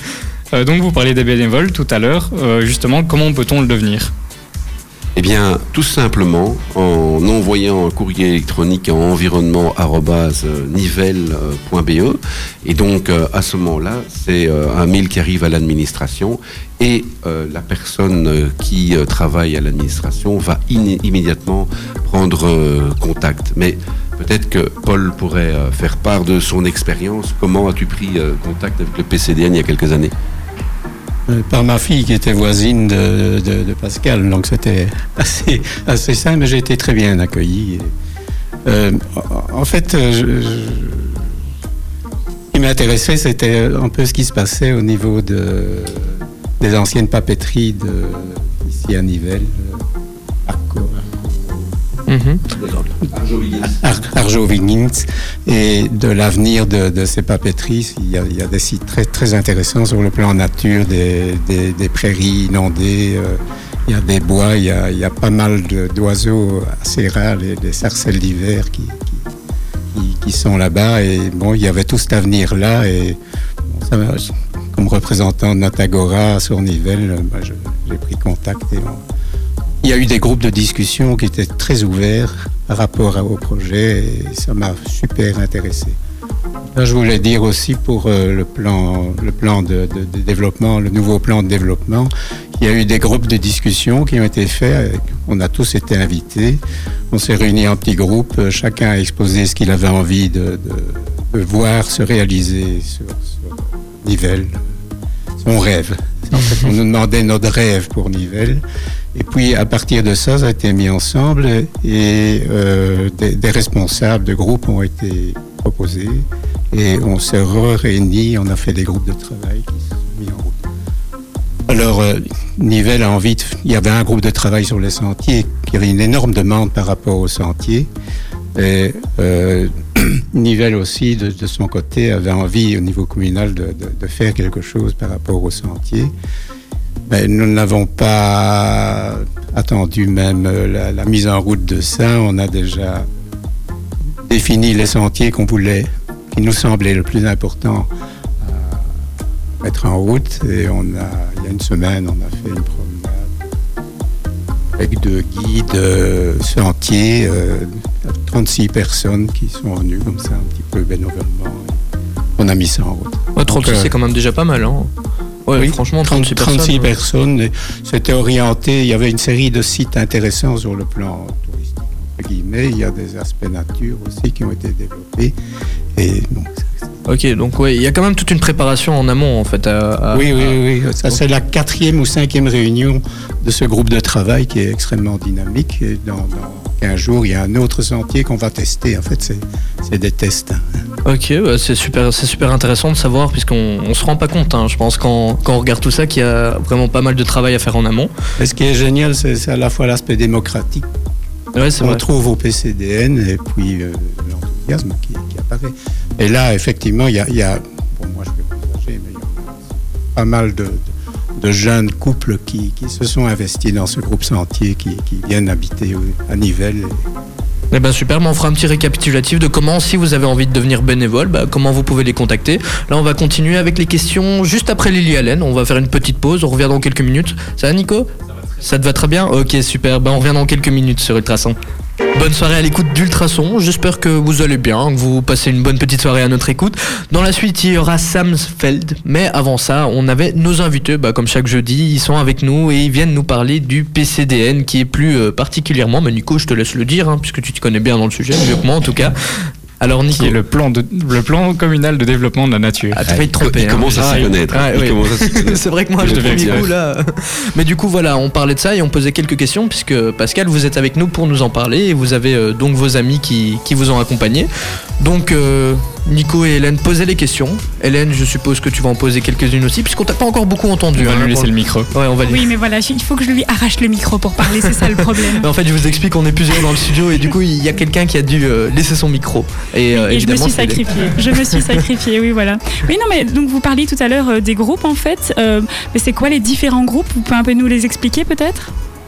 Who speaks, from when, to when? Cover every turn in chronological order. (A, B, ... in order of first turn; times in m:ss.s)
0:00.5-0:04.1 A
0:05.2-0:30.1 B
0:31.3-0:37.9 C
0:38.6-0:41.3 C
0:42.5-0:49.8 C
0:50.4-0:51.7 C
0:52.1-0:52.4 D
0:52.6-0:53.8 B
0:53.6-1:09.3 C
1:09.9-1:19.0 C
1:19.8-1:26.0 C
1:26.6-1:44.6 C
1:45.4-1:48.6 C
1:49.1-2:00.6 C
2:01.7-2:07.9 C
2:08.6-2:16.1 C
2:17.1-2:23.1 C
2:24.2-2:27.9 C
2:28.4-2:29.0 C
2:29.6-2:33.3 C
2:34.8-2:41.8 C
2:42.4-2:43.9 C
2:43.4-2:44.9 D
2:45.4-2:46.9 D
2:45.6-2:55.3 C
2:55.9-2:56.8 C
2:57.1-3:01.2 D
3:00.1-3:10.6 C
3:11.0-3:18.1 D
3:18.4-3:20.9 C
3:21.6-3:22.0 D
3:21.8-3:37.0 C
3:37.7-3:48.1 D
3:48.6-3:51.6 D
3:52.2-4:10.4 D
4:10.1-4:13.0 A
4:12.9-4:32.4 D
4:13.1-4:16.7 B
4:13.9-4:14.3 A
4:16.0-4:16.7 A
4:31.0-4:31.9 A
4:32.2-4:35.5 E
4:34.6-4:41.6 D
4:39.9-4:48.7 E